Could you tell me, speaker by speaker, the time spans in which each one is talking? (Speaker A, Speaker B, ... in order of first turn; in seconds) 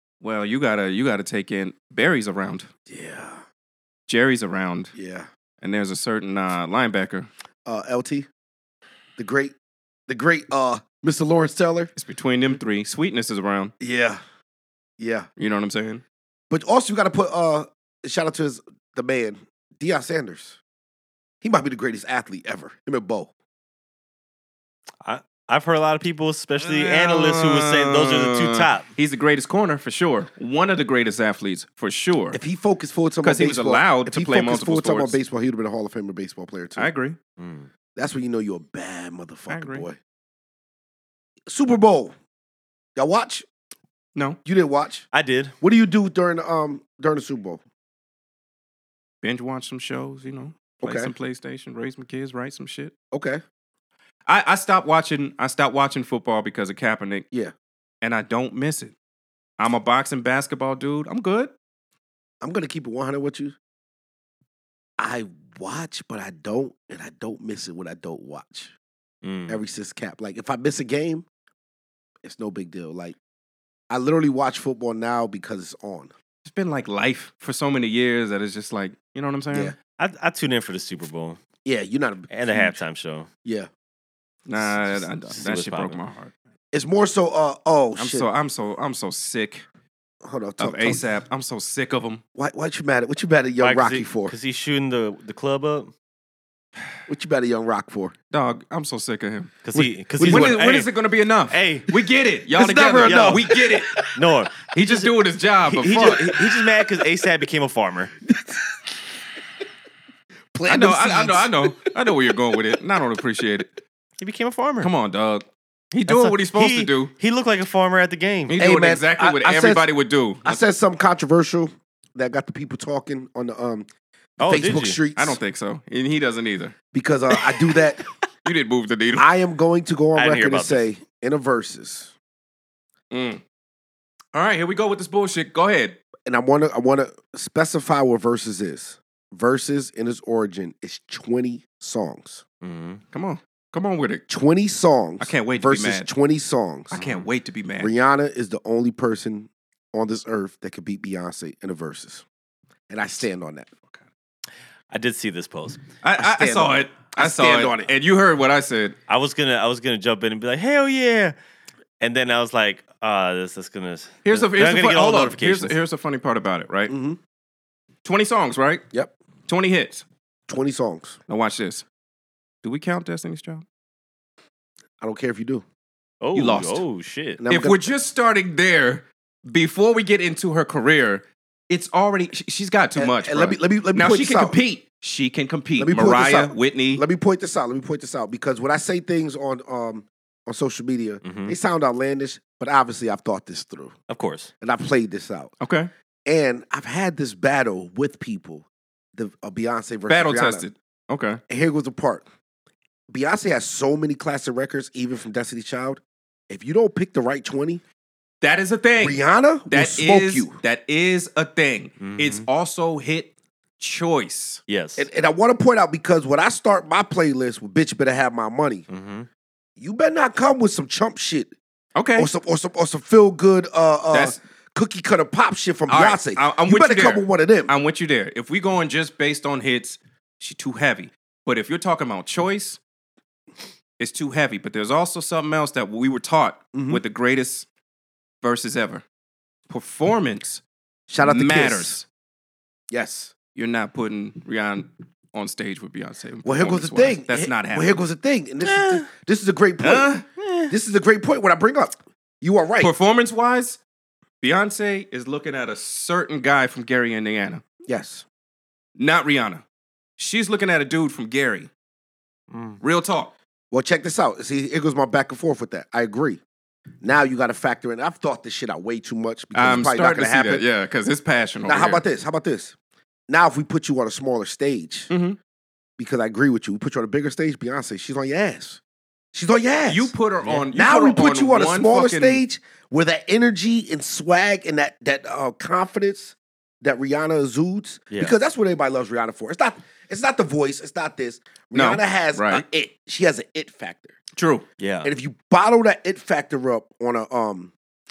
Speaker A: 0.2-2.7, 4.1-4.9, 5.6-7.3, 11.9-13.7, 15.4-16.0, 26.6-32.4, 33.2-35.2, 36.8-37.2, 39.5-39.9, 49.2-52.9, 54.3-57.2, 58.0-58.9, 59.6-61.5, 76.4-79.7, 84.5-86.3, 88.0-89.6, 90.6-92.2, 98.3-99.6, 100.2-104.0, 104.6-106.3, 110.7-113.7, 114.8-117.1, 118.5-120.6, 125.2-126.7, 128.4-129.2, 133.1-133.4, 134.3-136.0, 143.1-144.2, 145.2-146.1, 146.9-147.9, 156.0-158.9, 164.2-166.9, 168.0-168.8, 169.5-170.0, 171.3-171.8, 172.6-173.6, 176.3-176.8, 177.5-187.0, 195.6-195.9, 200.1-201.4, 208.4-214.6, 221.9-222.3, 224.1-224.4, 225.9-232.8, 234.0-237.7, 238.4-239.0, 239.7-240.6, 241.2-242.0, 243.5-248.0, 249.8-250.2, 252.8-253.8, 254.4-257.6, 259.0-259.6, 260.2-261.7, 262.8-263.3, 269.5-272.0, 275.1-275.4, 279.9-282.4, 291.7-292.6, 294.3-294.6
Speaker B: 2.9-3.4, 4.9-5.3, 7.6-8.3, 9.2-9.5, 10.1-11.9, 13.8-14.2, 15.0-15.3, 16.5-20.6, 21.4-23.3, 32.3-36.9, 37.9-40.0, 41.5-42.1, 43.0-43.5, 44.4-45.0, 45.6-47.6, 50.8-51.1, 53.1-53.4, 62.4-63.5, 65.0-68.7, 69.5-71.2, 72.2-73.2, 73.9-76.1, 81.6-82.8, 83.4-83.7, 86.7-88.3, 90.2-91.0, 92.3-94.3, 97.1-98.1, 99.7-100.6, 102.5-103.9, 108.3-108.8, 110.5-111.9, 118.6-119.9, 120.4-123.9, 124.4-125.4, 126.9-128.1, 129.2-132.1, 136.2-142.4, 144.3-147.0, 147.8-152.2, 152.9-153.7, 156.2-157.9, 166.9-167.2, 170.5-171.2, 175.0-175.6, 177.4-177.9, 182.9-184.6, 185.8-193.9, 194.6-195.5, 196.2-200.7, 201.5-202.2, 203.1-207.8, 209.0-210.6, 215.0-218.8, 219.8-221.5, 222.2-227.7, 236.7-237.0, 241.1-242.0, 242.9-243.3, 246.4-250.2, 250.7-252.9, 257.9-258.2, 263.7-266.4, 267.0-270.6, 271.6-272.7, 273.3-275.1, 276.0-278.8, 279.3-280.1, 280.7-294.2, 295.0-297.7
Speaker C: 25.0-28.9, 37.4-37.7, 45.1-45.5, 69.2-69.6, 80.0-81.4, 82.3-83.3, 85.3-86.0, 93.6-95.9, 99.6-100.9, 101.5-102.0, 103.0-103.5, 104.1-105.1, 105.7-108.1, 114.2-114.9, 116.1-118.6, 124.4-125.0, 130.1-130.8, 142.6-143.0, 146.9-147.3, 154.9-155.8, 159.1-161.3, 162.0-165.7, 176.2-177.4, 191.2-191.5, 194.1-194.5, 212.0-212.4, 214.7-215.1, 218.9-219.3, 248.6-249.1, 250.4-250.7, 262.5-262.8, 294.8-295.1